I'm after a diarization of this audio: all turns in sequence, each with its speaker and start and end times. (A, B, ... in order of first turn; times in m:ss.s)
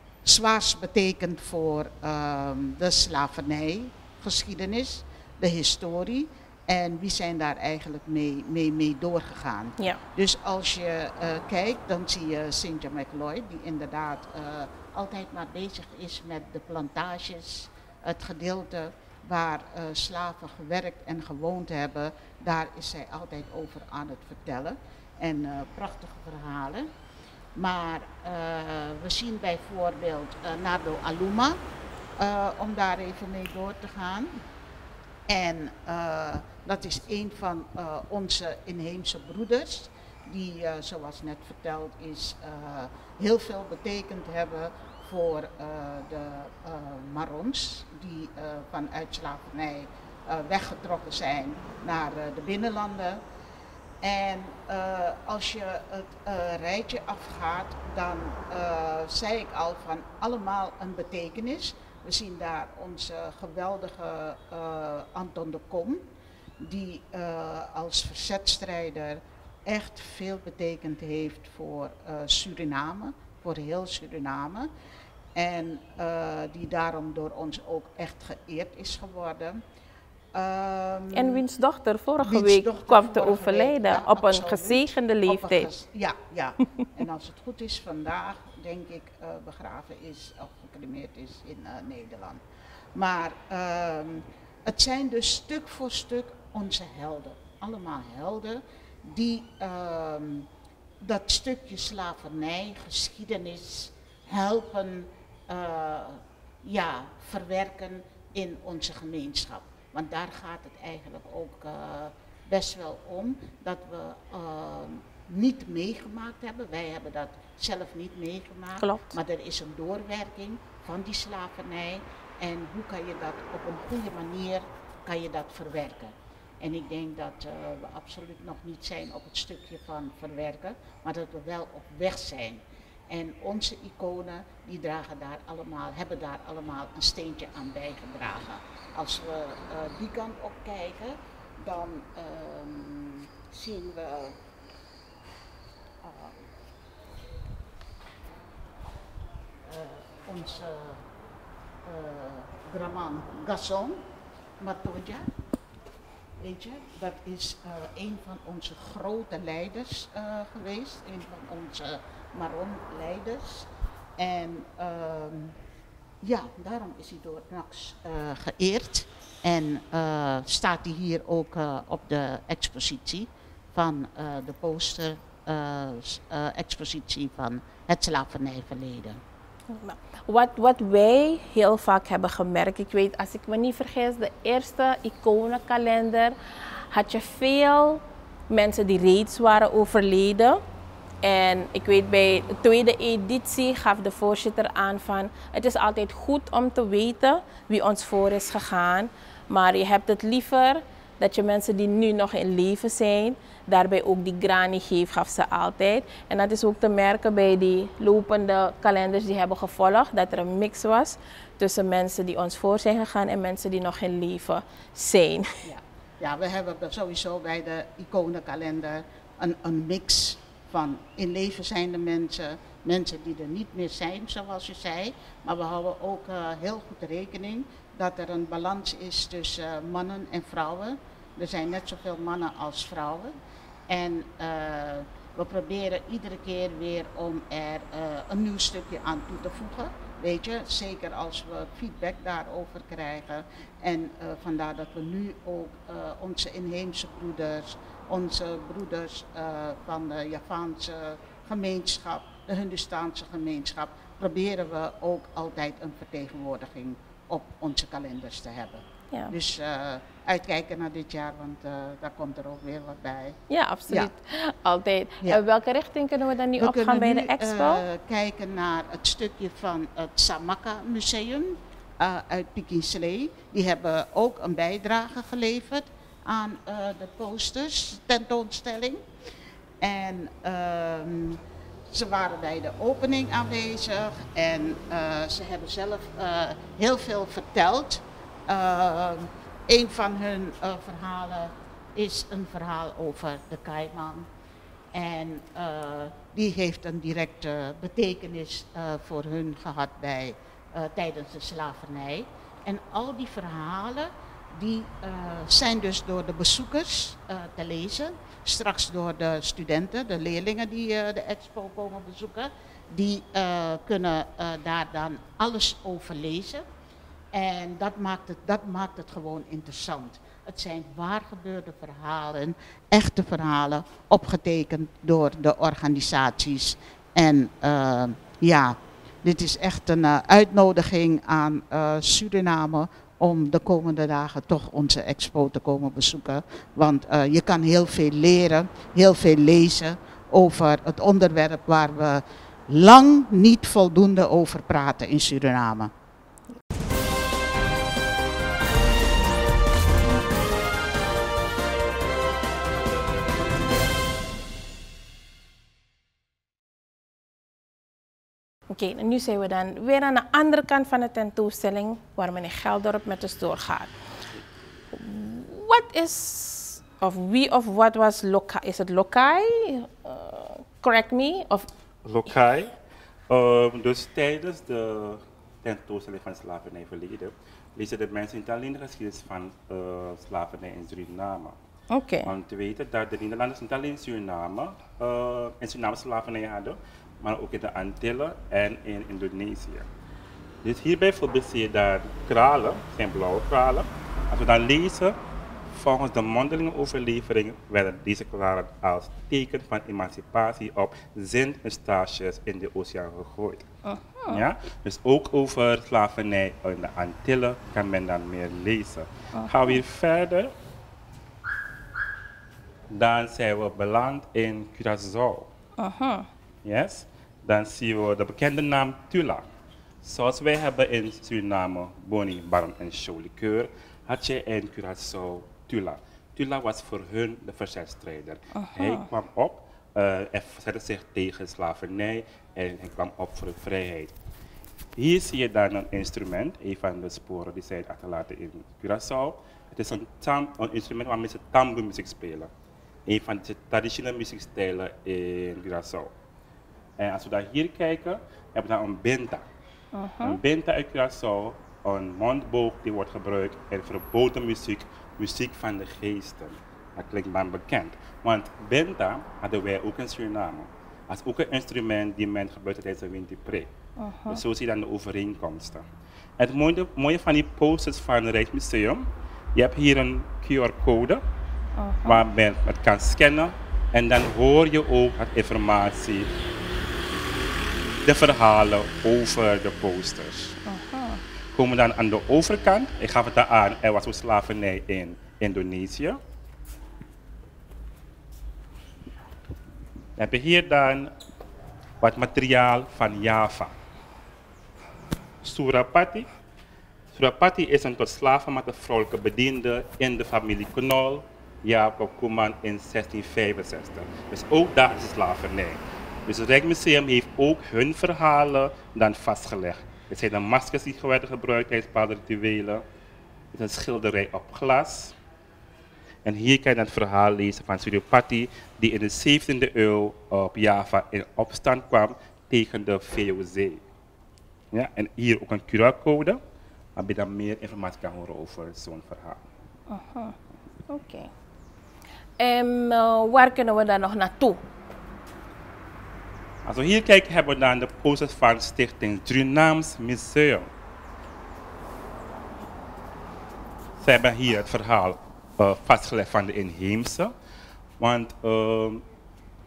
0:00.2-0:26.9 A
0:27.6-0:31.6 A
0:32.2-0:34.4 A
0:35.3-0:53.2 A
0:54.0-1:06.0 A
1:06.6-1:14.7 A
1:15.3-1:19.6 A
1:20.3-1:21.4 A
1:21.1-1:25.7 B
1:22.2-1:32.4 A
1:32.9-1:40.5 A
1:41.0-2:24.4 A
1:58.8-1:59.2 B
2:26.0-2:26.4 A
2:29.6-2:31.0 A
2:31.8-2:34.0 A
2:34.6-2:35.3 A
2:36.4-2:45.6 A
2:46.2-2:59.2 A
2:59.7-3:06.3 B
3:06.9-3:10.6 B
3:11.2-3:35.6 B
3:35.6-3:53.3 A
3:53.9-4:23.4 A
4:23.5-4:27.8 B
4:26.6-4:39.0 A
4:39.8-4:54.3 A
4:54.9-5:16.6 A
5:17.3-5:45.9 A
5:58.7-6:03.9 B
6:04.9-6:11.7 B
6:12.0-6:12.7 C
6:13.3-6:21.6 C
6:21.9-6:22.3 B
6:22.2-6:29.8 C
6:30.6-6:35.2 C
6:35.7-6:43.6 C
6:43.8-6:44.4 B
6:44.3-6:50.5 C
6:49.3-6:49.8 B
6:52.9-6:55.5 C
6:55.8-6:56.3 B
6:56.6-6:59.4 C
7:00.0-7:14.1 C
7:08.5-7:09.0 B
7:15.0-7:22.5 C
7:23.0-7:26.1 C
7:27.0-7:29.4 C
7:29.9-7:30.4 B
7:30.2-7:43.7 C
7:44.0-7:44.4 B
7:44.3-7:45.8 C
7:46.4-7:51.2 C
7:51.8-7:52.2 B
7:52.0-7:56.3 C
7:58.0-8:00.6 C
8:00.6-8:01.2 B
8:01.5-8:06.2 C
8:10.2-8:11.1 C
8:12.0-8:13.7 C
8:15.4-8:16.3 C
8:17.1-8:32.8 C
8:33.5-8:35.1 C
8:36.2-8:43.8 C
8:44.7-8:46.4 C
8:47.0-8:49.4 C
8:49.9-8:50.3 B
8:50.9-8:51.3 B
8:52.4-8:54.6 B
8:56.6-9:00.7 C
9:04.0-9:07.3 C
9:08.0-9:09.0 C